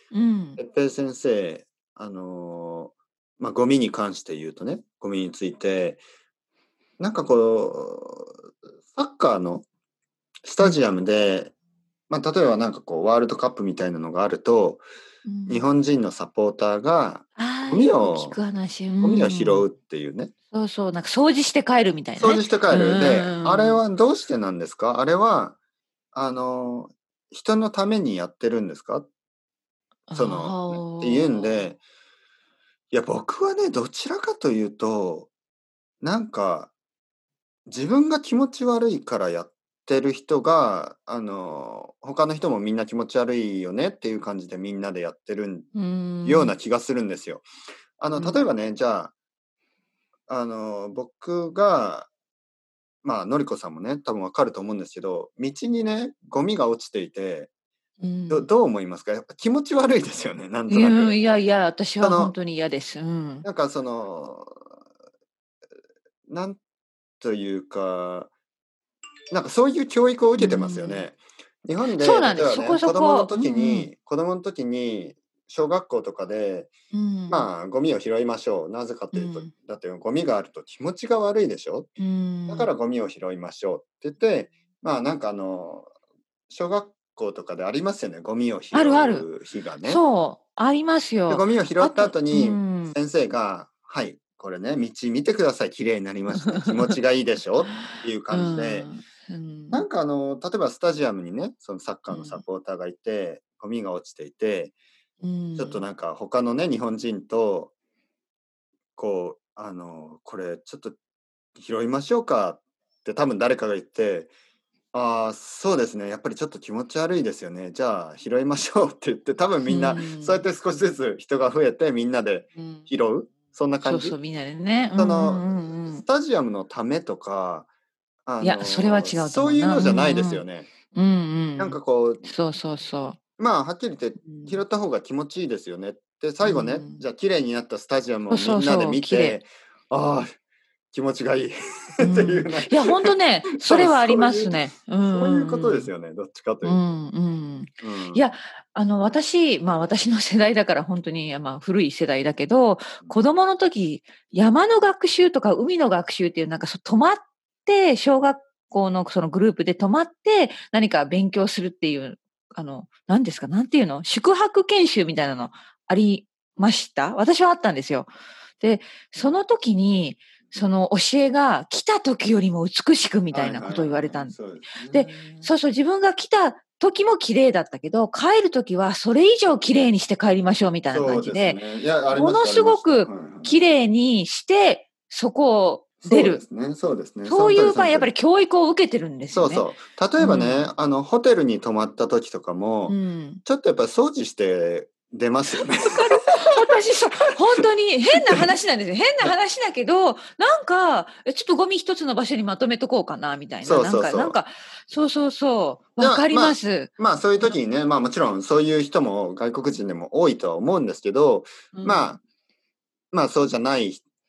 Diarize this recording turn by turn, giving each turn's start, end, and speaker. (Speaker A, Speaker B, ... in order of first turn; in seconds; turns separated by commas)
Speaker A: 0.1-0.6, Speaker B: 0.6-6.0, Speaker B: 7.0-8.3, Speaker B: 8.9-9.7, Speaker B: 10.4-11.5, Speaker B: 12.1-14.8, Speaker A: 15.2-15.6, Speaker B: 15.5-18.4, Speaker A: 17.4-19.7, Speaker B: 19.0-20.3, Speaker A: 20.5-23.8, Speaker B: 22.2-25.6, Speaker B: 26.1-29.1, Speaker A: 30.1-31.7, Speaker B: 30.1-31.8, Speaker B: 32.9-35.3, Speaker B: 36.0-36.7, Speaker B: 37.7-45.7, Speaker A: 45.7-46.5, Speaker B: 46.2-47.4, Speaker B: 48.0-49.1, Speaker A: 48.1-48.4, Speaker B: 50.3-52.1, Speaker B: 53.0-57.5, Speaker A: 58.0-58.5, Speaker B: 58.3-61.4, Speaker A: 60.7-63.5, Speaker B: 62.0-62.3, Speaker B: 63.4-64.6, Speaker B: 66.3-66.6, Speaker B: 67.2-68.3, Speaker B: 69.3-76.7, Speaker A: 70.4-71.1, Speaker A: 71.8-73.9, Speaker A: 76.9-77.5, Speaker B: 77.3-81.9, Speaker A: 79.1-79.5, Speaker A: 82.0-82.7, Speaker B: 82.5-85.9, Speaker B: 86.5-90.0, Speaker A: 88.7-89.3, Speaker A: 89.8-93.0, Speaker B: 91.3-98.9, Speaker A: 96.4-96.9, Speaker A: 97.7-99.8, Speaker B: 99.7-104.7, Speaker A: 102.1-102.4, Speaker A: 105.2-105.8, Speaker B: 105.5-107.7, Speaker B: 109.0-111.0, Speaker B: 111.5-114.3, Speaker B: 114.9-124.2, Speaker A: 119.7-120.4, Speaker A: 122.6-122.9, Speaker A: 123.8-126.0, Speaker B: 125.0-127.7, Speaker B: 128.2-130.7, Speaker A: 128.4-133.2, Speaker B: 131.6-132.3, Speaker B: 133.4-140.3, Speaker A: 134.2-134.6, Speaker A: 136.4-137.0, Speaker A: 138.3-139.4, Speaker B: 140.9-146.8, Speaker A: 142.0-145.9, Speaker A: 146.6-174.3, Speaker B: 147.8-148.3, Speaker B: 173.3-175.5, Speaker A: 174.9-186.4, Speaker B: 180.9-183.7, Speaker B: 186.0-188.1, Speaker A: 187.2-189.7, Speaker B: 189.3-196.5, Speaker A: 190.2-190.7, Speaker A: 192.9-193.4, Speaker A: 195.8-207.5, Speaker B: 198.1-198.4, Speaker B: 203.6-204.4, Speaker B: 206.0-212.2, Speaker A: 211.7-212.2, Speaker B: 213.1-214.1